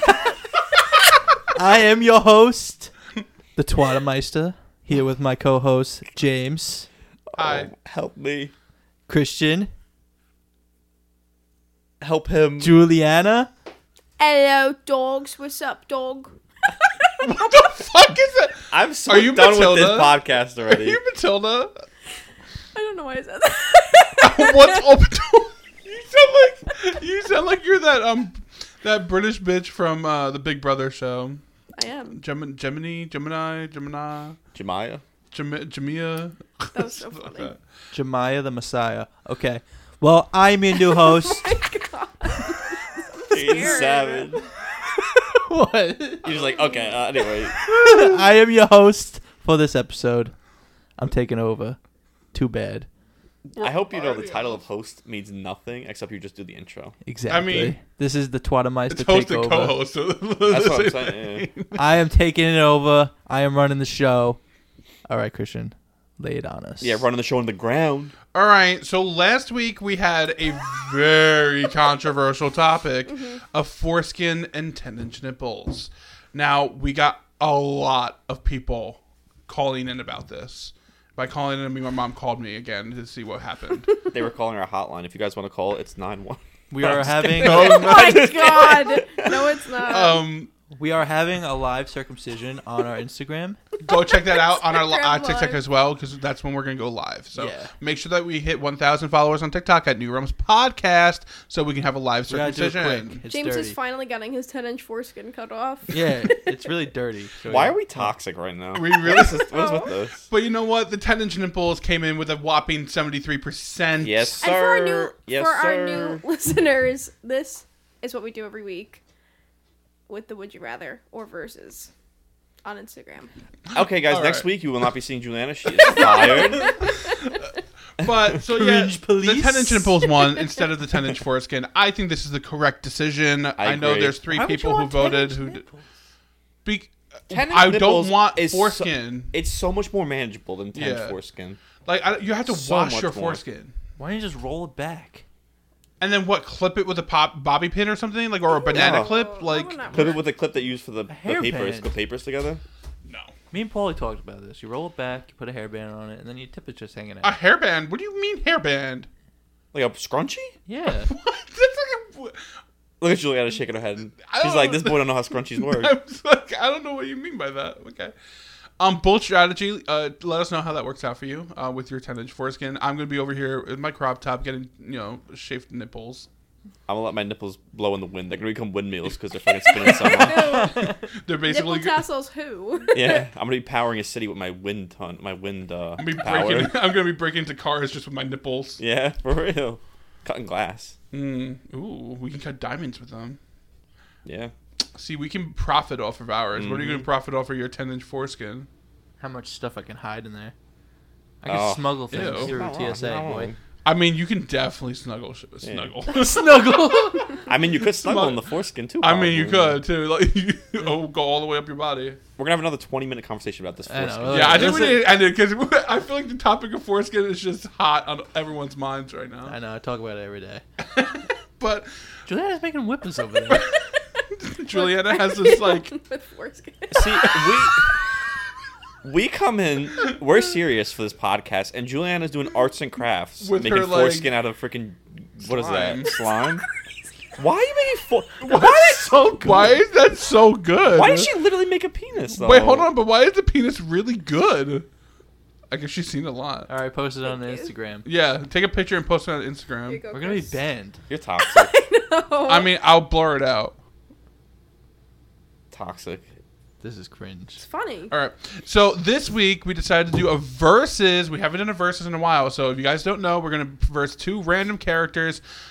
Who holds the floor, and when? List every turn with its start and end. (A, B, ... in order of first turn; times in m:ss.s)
0:01.5-0:02.9 A
0:03.6-0:06.9 A
0:07.3-0:08.5 B
0:07.4-0:07.7 C
0:09.1-0:09.7 A
0:12.0-0:12.8 B
0:12.6-0:13.5 A
0:14.2-0:17.4 D
0:17.2-0:21.8 C
0:18.7-0:21.0 B
0:22.7-0:24.9 D
0:24.2-0:31.4 C
0:31.8-0:32.2 D
0:32.1-0:34.4 C
0:34.5-0:35.0 B
0:35.3-0:37.6 C
0:36.7-0:37.5 D
0:37.9-0:41.7 A
0:40.8-0:44.3 D
0:43.3-0:44.5 B
0:45.4-0:46.3 A
0:46.2-0:47.6 B
0:46.2-0:47.5 D
0:47.7-0:50.3 A
0:51.0-0:51.8 A
0:52.3-0:52.9 A
0:53.4-0:57.0 B
0:53.6-0:54.6 C
0:57.0-0:59.8 A
0:57.3-0:57.8 C
0:58.9-1:01.8 C
1:00.5-1:01.5 B
1:01.8-1:04.4 A
1:05.1-1:07.0 A
1:06.8-1:08.1 B
1:08.3-1:24.0 C
1:24.1-1:29.0 B
1:26.7-1:28.0 A
1:26.8-1:30.5 C
1:27.4-1:30.2 D
1:30.7-1:33.6 A
1:33.8-1:43.2 C
1:33.8-1:35.6 D
1:37.3-1:37.7 A
1:42.3-1:43.8 A
1:43.3-1:46.4 D
1:45.9-1:48.1 A
1:47.5-1:50.2 B
1:48.7-1:49.5 C
1:49.2-1:50.0 D
1:50.3-1:54.4 C
1:54.0-1:56.2 B
1:54.4-1:59.0 D
2:00.1-2:01.9 D
2:02.6-2:03.3 D
2:03.7-2:04.5 C
2:03.7-2:06.8 B
2:05.8-2:06.4 C
2:05.8-2:07.1 D
2:08.0-2:15.6 C
2:08.4-2:10.0 A
2:13.6-2:14.2 B
2:14.4-2:15.2 D
2:14.4-2:15.9 A
2:16.6-2:19.3 C
2:17.3-2:21.6 B
2:20.7-2:21.2 C
2:21.8-2:23.7 C
2:22.5-2:23.4 B
2:24.0-2:25.2 A
2:26.0-2:30.1 C
2:28.5-2:30.2 D
2:28.7-2:29.2 B
2:29.9-2:32.6 B
2:31.1-2:31.9 A
2:33.0-2:33.3 C
2:33.5-2:37.4 A
2:37.2-2:39.1 C
2:39.7-2:40.6 B
2:40.7-2:41.1 A
2:41.0-2:42.5 C
2:43.0-2:45.9 B
2:44.3-2:48.1 C
2:48.8-2:56.3 C
2:56.9-3:00.7 B
2:59.7-3:03.2 D
3:00.0-3:02.0 C
3:02.9-3:06.7 B
3:06.0-3:08.8 C
3:08.8-3:11.0 B
3:11.1-3:13.4 C
3:14.2-3:14.5 B
3:14.9-3:18.7 C
3:16.5-3:17.1 B
3:19.2-3:20.5 A
3:21.4-3:23.5 A
3:21.4-3:23.6 B
3:22.1-3:22.5 C
3:23.8-3:28.4 C
3:25.6-3:25.9 B
3:26.1-3:27.4 A
3:27.4-3:29.8 B
3:29.0-3:32.2 C
3:32.4-3:35.0 B
3:33.9-3:35.0 A
3:34.3-3:39.6 C
3:39.4-3:40.6 A
3:40.8-3:42.1 C
3:42.2-3:43.7 A
3:43.6-3:47.7 D
3:44.4-3:45.9 C
3:46.9-3:48.0 B
3:49.0-3:56.6 B
3:53.4-3:54.3 C
3:55.4-3:56.2 C
3:57.4-3:59.8 B
3:58.4-4:01.3 C
4:00.9-4:02.9 B
4:02.3-4:04.8 C
4:05.7-4:06.7 C
4:06.7-4:08.0 A
4:07.2-4:07.7 D
4:08.0-4:10.0 C
4:09.9-4:10.6 D
4:10.1-4:11.0 A
4:11.1-4:11.7 B
4:11.4-4:12.7 D
4:12.4-4:13.8 C
4:15.7-4:16.3 B
4:16.8-4:17.6 A
4:17.6-4:18.1 D
4:18.1-4:25.4 C